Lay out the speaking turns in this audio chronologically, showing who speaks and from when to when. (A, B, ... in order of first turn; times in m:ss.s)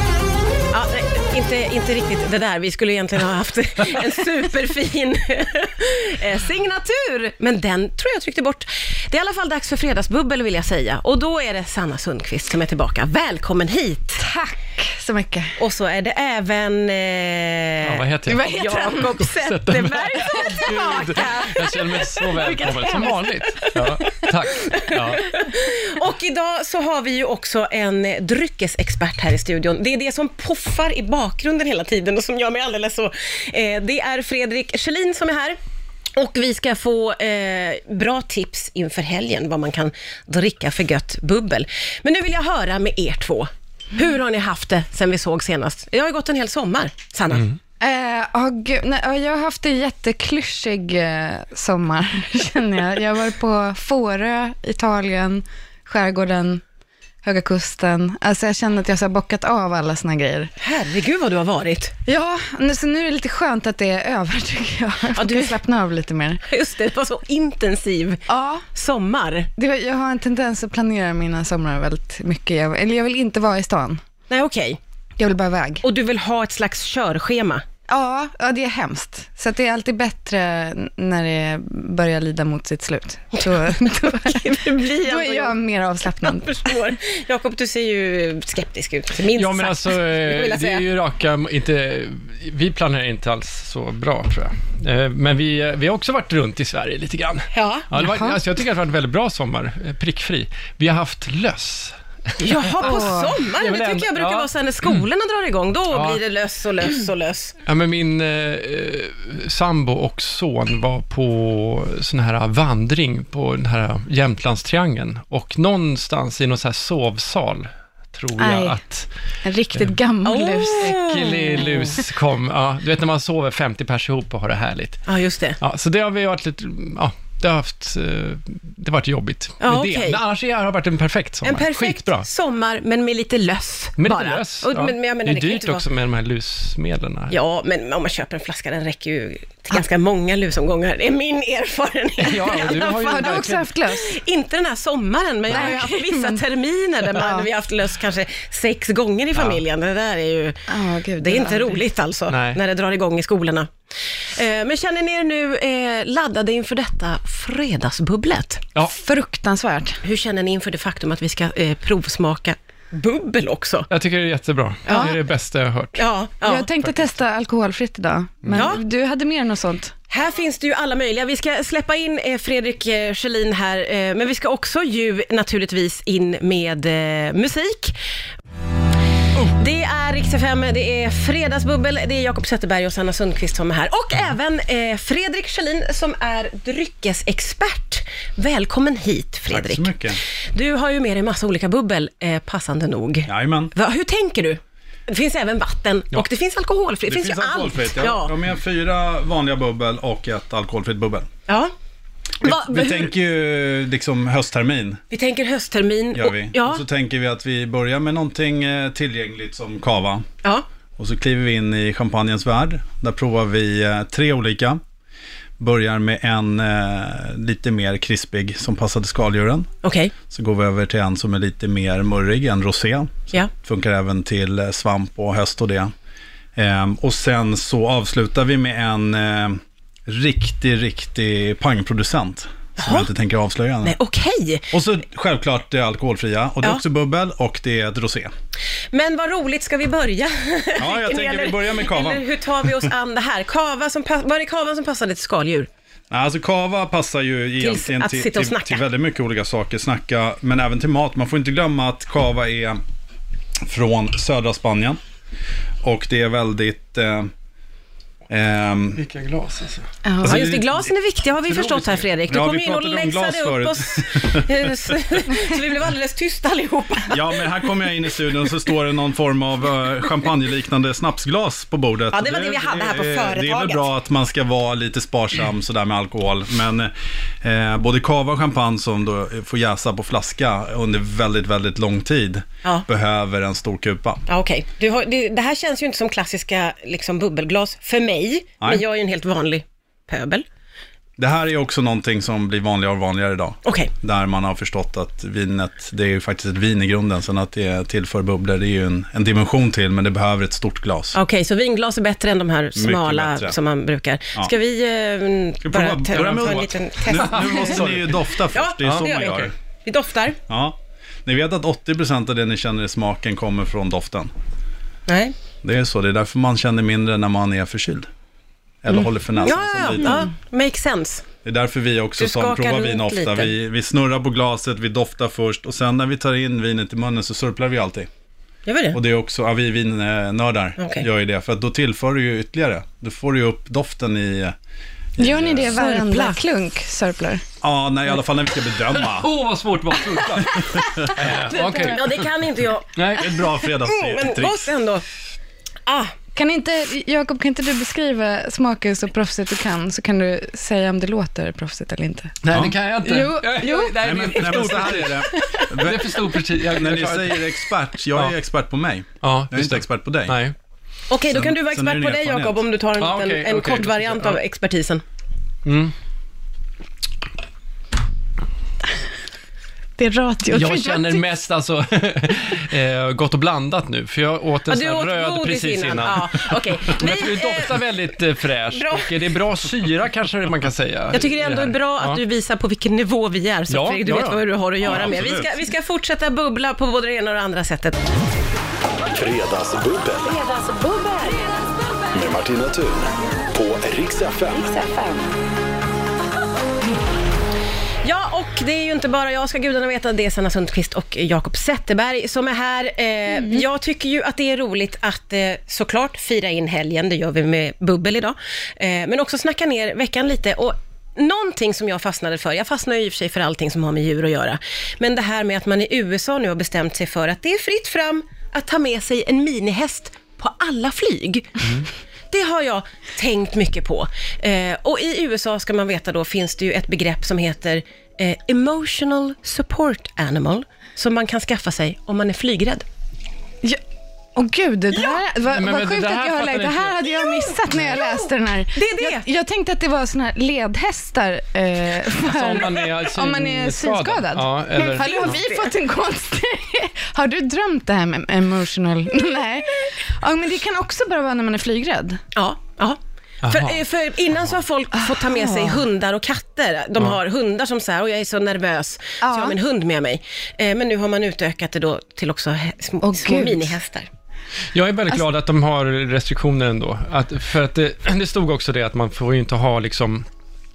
0:00.7-0:14.3 A
0:14.2-0:15.6 B
0:15.6-0:35.6 A
0:17.8-0:18.5 C
0:18.2-0:19.2 B
0:19.2-0:25.4 C
0:20.1-0:21.3 B
0:22.3-0:23.3 B
0:36.1-0:47.5 A
0:47.8-0:56.6 B
0:57.2-1:00.5 B
1:00.6-1:01.9 A
1:02.0-1:06.4 B
1:05.1-1:05.6 A
1:06.4-1:09.5 A
1:08.3-1:08.6 B
1:09.6-1:14.0 B
1:14.3-1:14.8 A
1:15.2-1:15.8 B
1:15.8-1:17.6 A
1:17.9-1:26.8 B
1:23.3-1:25.6 A
1:26.2-1:30.8 A
1:29.3-1:45.0 C
1:37.5-1:37.9 A
1:38.0-1:38.4 B
1:42.4-1:47.5 A
1:42.8-1:43.3 B
1:45.9-1:46.2 C
1:47.6-1:59.1 C
1:58.4-1:58.8 B
1:59.4-2:01.0 B
2:00.2-2:02.0 A
2:00.8-2:05.0 C
2:05.0-2:05.6 A
2:05.6-2:12.2 C
2:09.6-2:10.2 A
2:11.4-2:15.8 A
2:14.0-2:17.4 C
2:17.3-2:38.6 A
2:22.2-2:23.7 C
2:22.7-2:24.2 B
2:25.5-2:26.4 B
2:25.5-2:25.9 C
2:27.2-2:27.5 B
2:29.4-2:29.6 C
2:30.7-2:31.8 B
2:32.3-2:32.6 C
2:38.8-2:40.0 B
2:40.0-2:43.9 A
2:43.9-2:46.0 C
2:44.8-2:45.2 A
2:44.9-2:45.2 B
2:46.0-2:46.7 A
2:46.4-2:49.9 B
2:46.8-2:47.2 C
2:48.4-2:48.7 C
2:48.5-2:48.8 A
2:50.1-2:58.0 A
2:59.4-3:18.3 A
3:09.5-3:10.2 D
3:13.3-3:13.7 D
3:17.0-3:21.3 D
3:21.5-3:21.7 A
3:22.4-3:23.1 A
3:22.4-3:25.0 D
3:25.1-3:26.8 A
3:26.1-3:30.2 D
3:31.0-3:34.8 D
3:35.6-3:39.7 D
3:39.8-3:40.1 A
3:40.3-3:45.9 D
3:46.6-3:54.0 D
3:52.8-3:53.1 A
3:53.8-3:54.7 A
3:54.7-3:58.3 D
3:58.9-4:05.7 A
4:00.8-4:02.9 D
4:06.1-4:12.8 D
4:07.6-4:08.8 A
4:13.6-4:15.0 D
4:15.8-4:17.3 D
4:18.3-4:19.0 D
4:19.0-4:19.9 C
4:20.0-4:20.5 B
4:20.2-4:20.8 D
4:20.2-4:27.7 A
4:21.5-4:22.0 C
4:22.3-4:25.2 D
4:27.1-4:44.2 D
4:32.1-4:33.9 A
4:44.3-4:50.4 A
4:51.2-5:01.2 D
4:53.6-4:53.9 A
5:01.1-5:10.4 A
5:02.7-5:03.6 D
5:05.6-5:09.5 D
5:07.3-5:08.0 C
5:10.5-5:14.3 D
5:15.1-5:15.3 A
5:15.6-5:18.1 D
5:18.8-5:20.3 D
5:18.9-5:21.2 A
5:21.4-5:28.1 D
5:22.2-5:23.5 A
5:28.6-5:29.0 A
5:28.9-5:34.5 D
5:30.8-5:31.1 A
5:35.2-5:35.8 D
5:35.2-5:37.4 B
5:35.7-5:36.4 A
5:37.6-5:39.3 D
5:39.0-5:42.3 C
5:40.6-5:41.3 D
5:41.2-5:45.0 A
5:41.4-5:42.0 B
5:43.0-5:43.4 C
5:43.1-5:44.6 D
5:45.8-5:46.1 A
5:46.3-5:52.4 B
5:52.4-5:57.6 C
5:52.5-5:52.8 D
5:53.0-5:54.5 B
5:54.0-6:00.4 D
5:55.4-5:55.6 B
5:59.2-6:00.5 C
6:01.1-6:05.0 A
6:01.3-6:02.6 D
6:03.0-6:04.4 C
6:05.6-6:05.9 C
6:10.0-6:11.2 B
6:10.5-6:22.2 C
6:14.7-6:17.8 A
6:18.7-6:19.2 A
6:21.1-6:28.0 A
6:23.7-6:24.4 C
6:24.8-6:25.5 D
6:29.1-6:31.4 E
6:32.1-6:35.3 E
6:38.0-7:12.8 A
7:14.3-7:32.2 B
7:14.9-7:15.2 A
7:15.5-7:18.0 C
7:17.3-7:19.3 A
7:22.2-7:25.4 C
7:24.8-7:25.7 A
7:32.3-7:44.1 A
7:33.4-7:33.8 C
7:35.0-7:35.8 B
7:39.2-7:39.6 B
7:43.0-7:43.8 B
7:44.7-7:50.2 C